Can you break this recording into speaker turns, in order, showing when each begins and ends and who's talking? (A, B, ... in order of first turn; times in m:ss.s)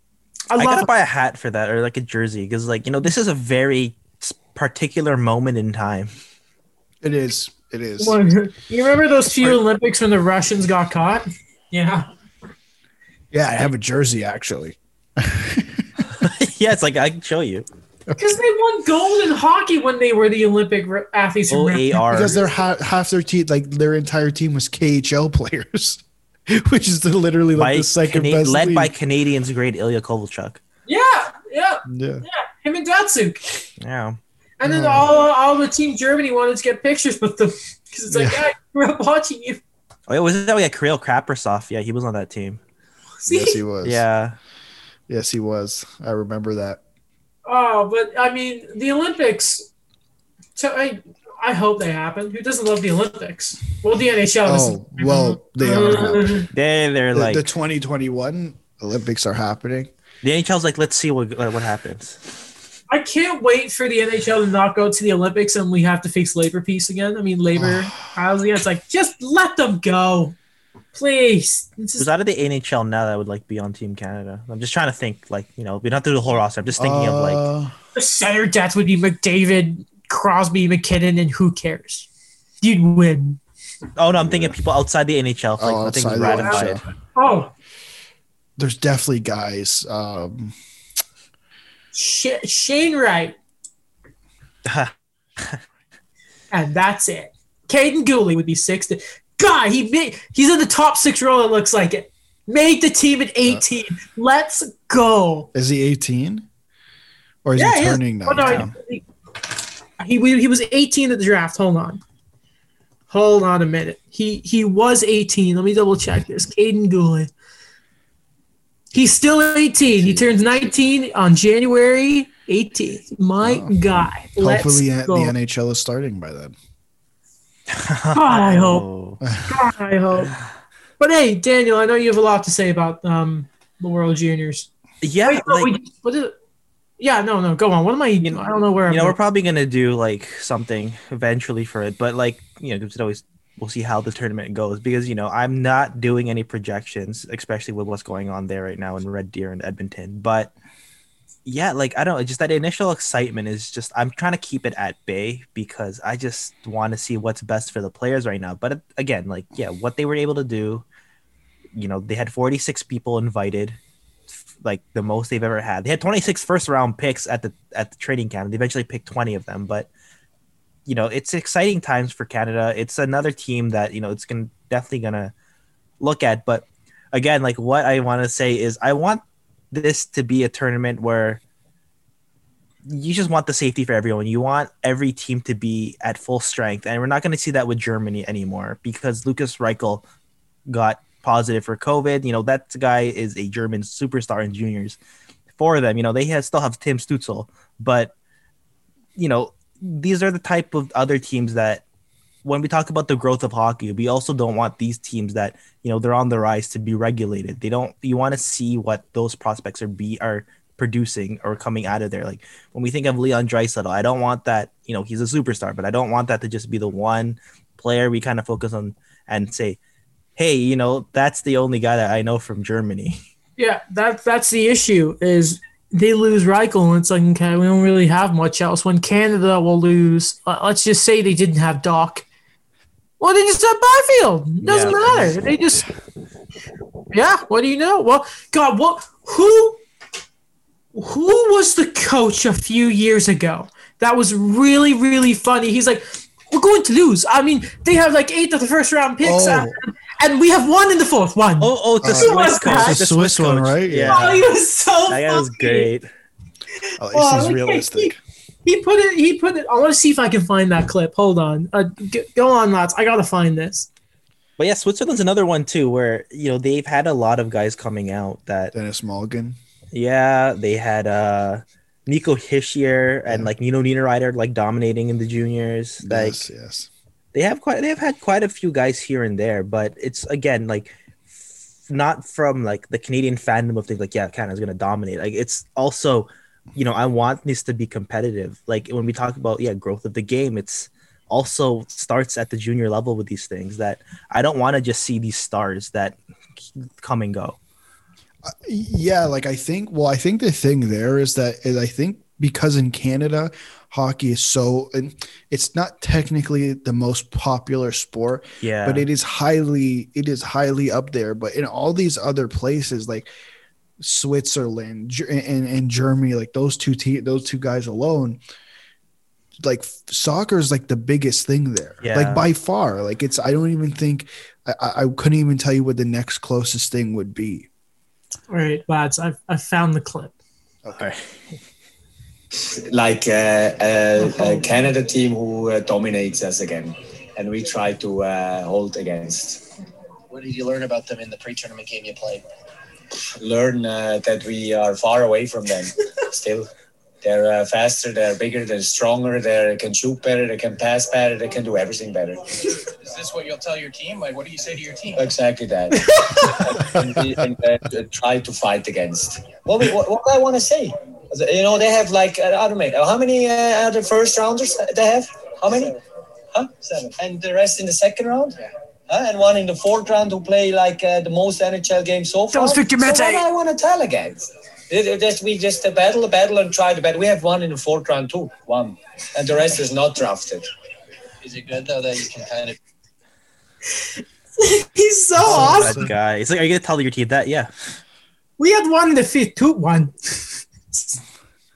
0:00.5-0:00.9 A
0:00.6-0:06.1 B
0:07.0-0:08.2 C
0:08.0-0:12.1 A
0:13.3-0:15.9 C
0:16.1-0:17.6 B
0:18.2-0:22.2 A
0:21.5-0:22.4 B
0:22.1-0:28.9 C
0:27.6-0:30.6 B
0:30.9-0:33.6 A
0:31.9-0:32.2 C
0:33.8-0:34.2 B
0:34.6-0:39.6 A
0:34.6-0:35.2 C
0:38.1-0:38.4 C
0:40.1-0:42.6 B
0:43.2-0:43.6 A
0:43.3-0:44.0 C
0:43.8-0:44.4 B
0:45.1-0:46.8 C
0:47.4-0:49.7 A
0:50.6-0:56.5 A
0:54.4-0:56.5 C
0:56.5-0:57.4 B
0:57.1-0:59.9 C
1:00.2-1:02.2 B
1:02.9-1:10.4 A
1:07.6-1:08.0 C
1:10.9-1:12.0 A
1:12.0-1:17.4 B
1:16.8-1:17.7 C
1:17.9-1:22.1 A
1:22.6-1:23.4 A
1:24.0-1:26.8 B
1:24.1-1:24.6 C
1:25.6-1:26.8 C
1:26.3-1:27.5 A
1:28.6-1:30.6 C
1:31.9-1:33.4 A
1:34.6-1:35.6 B
1:36.5-1:45.5 A
1:45.5-1:46.5 C
1:47.4-1:48.7 C
1:47.6-1:49.0 A
1:50.0-1:52.0 A
1:53.1-1:57.3 A
1:58.9-2:05.3 A
2:03.4-2:03.8 C
2:04.4-2:06.5 C
2:07.7-2:09.2 B
2:08.1-2:08.8 A
2:09.2-2:09.6 C
2:09.4-2:10.3 A
2:11.0-2:14.7 A
2:15.0-2:15.7 B
2:15.2-2:16.3 A
2:17.0-2:19.2 A
2:18.2-2:30.5 B
2:31.4-2:40.8 B
2:41.7-2:43.8 B
2:44.6-2:49.9 B
2:50.8-2:55.3 B
2:56.0-3:01.4 B
3:02.8-3:10.0 B
3:10.7-3:15.0 B
3:15.6-3:18.1 B
3:19.2-3:21.8 B
3:22.4-3:39.8 B
3:40.4-3:43.2 B
3:43.6-3:52.2 A
3:53.2-3:55.9 A
3:54.6-3:55.3 B
3:55.1-3:55.3 C
3:57.1-3:59.8 A
4:00.9-4:13.0 A
4:09.2-4:09.8 C
4:11.6-4:14.4 B
4:12.0-4:14.3 C
4:14.1-4:15.9 A
4:15.0-4:16.1 B
4:17.0-4:18.2 C
4:17.1-4:18.1 A
4:18.6-4:23.9 A
4:24.6-4:28.7 B
4:28.7-4:29.6 C
4:29.9-4:36.4 B
4:36.0-4:36.9 C
4:37.3-4:57.6 B
4:58.4-5:13.3 C
5:08.6-5:09.0 B
5:14.0-5:18.4 C
5:19.6-5:27.7 C
5:22.0-5:22.5 B
5:28.5-5:30.3 A
5:30.8-5:31.2 C
5:32.5-5:39.6 D
5:40.3-5:42.4 E
5:43.4-5:46.7 D
5:47.2-5:52.7 D
5:53.0-5:55.3 E
5:55.1-6:06.0 D
5:55.9-5:56.7 A
5:56.8-5:57.2 C
6:06.5-6:20.7 D
6:12.5-6:13.4 A
6:21.4-6:22.8 E
6:24.6-6:26.1 A
6:25.4-6:26.1 C
6:25.4-6:28.0 B
6:28.6-6:31.2 A